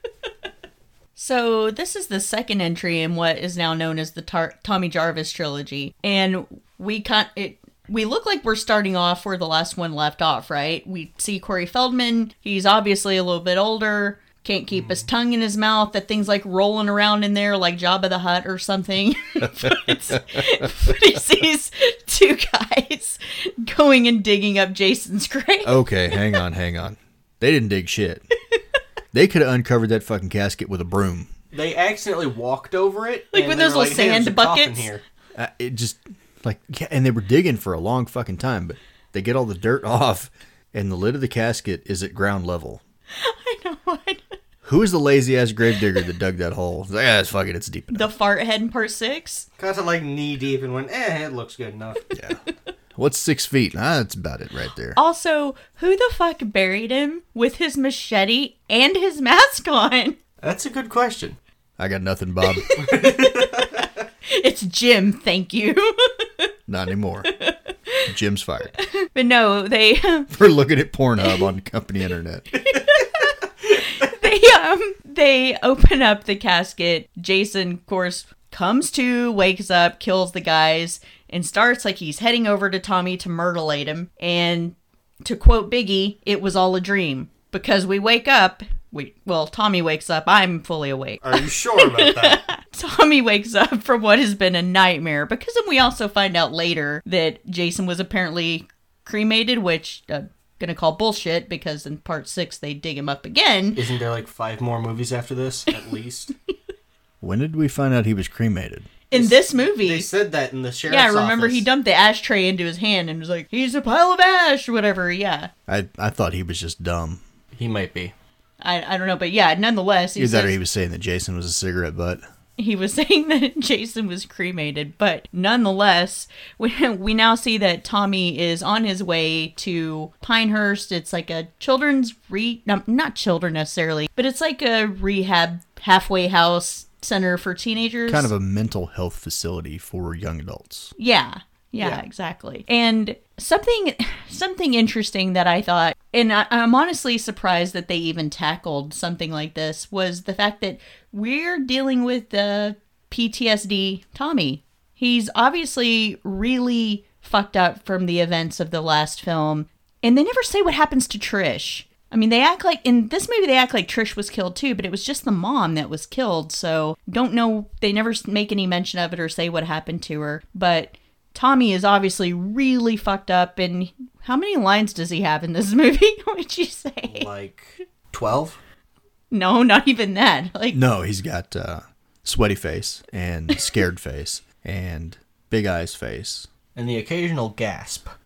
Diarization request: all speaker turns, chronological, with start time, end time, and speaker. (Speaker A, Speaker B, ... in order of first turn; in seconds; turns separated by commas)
Speaker A: 1.2-26.3, Speaker B: 19.4-20.7, Speaker B: 25.6-28.2, Speaker B: 29.1-31.3, Speaker C: 31.5-35.0, Speaker A: 33.3-34.9, Speaker B: 35.4-42.8, Speaker A: 43.1-44.2, Speaker B: 44.6-48.1, Speaker A: 47.9-49.5, Speaker C: 49.6-52.1, Speaker B: 52.1-52.4, Speaker B: 53.0-55.0, Speaker A: 55.0-60.2, Speaker C: 60.4-61.4, Speaker B: 61.8-62.8, Speaker A: 62.5-63.5, Speaker C: 62.8-63.9, Speaker A: 64.3-66.5, Speaker B: 66.7-67.3, Speaker A: 67.3-68.1, Speaker B: 68.1-68.7, Speaker A: 68.8-70.3, Speaker B: 70.3-72.5, Speaker A: 72.6-103.8, Speaker C: 91.2-92.4, Speaker C: 103.8-106.3, Speaker B: 107.2-108.9, Speaker A: 109.1-110.1, Speaker C: 109.1-111.7, Speaker A: 110.9-115.5, Speaker B: 115.7-117.2, Speaker C: 117.5-118.1, Speaker A: 118.6-120.6, Speaker B: 120.2-122.2, Speaker A: 122.6-138.3, Speaker B: 138.1-140.9, Speaker A: 141.0-177.3, Speaker C: 141.8-142.0, Speaker C: 177.1-178.6, Speaker A: 179.3-180.8, Speaker B: 180.7-186.5, Speaker C: 186.8-188.1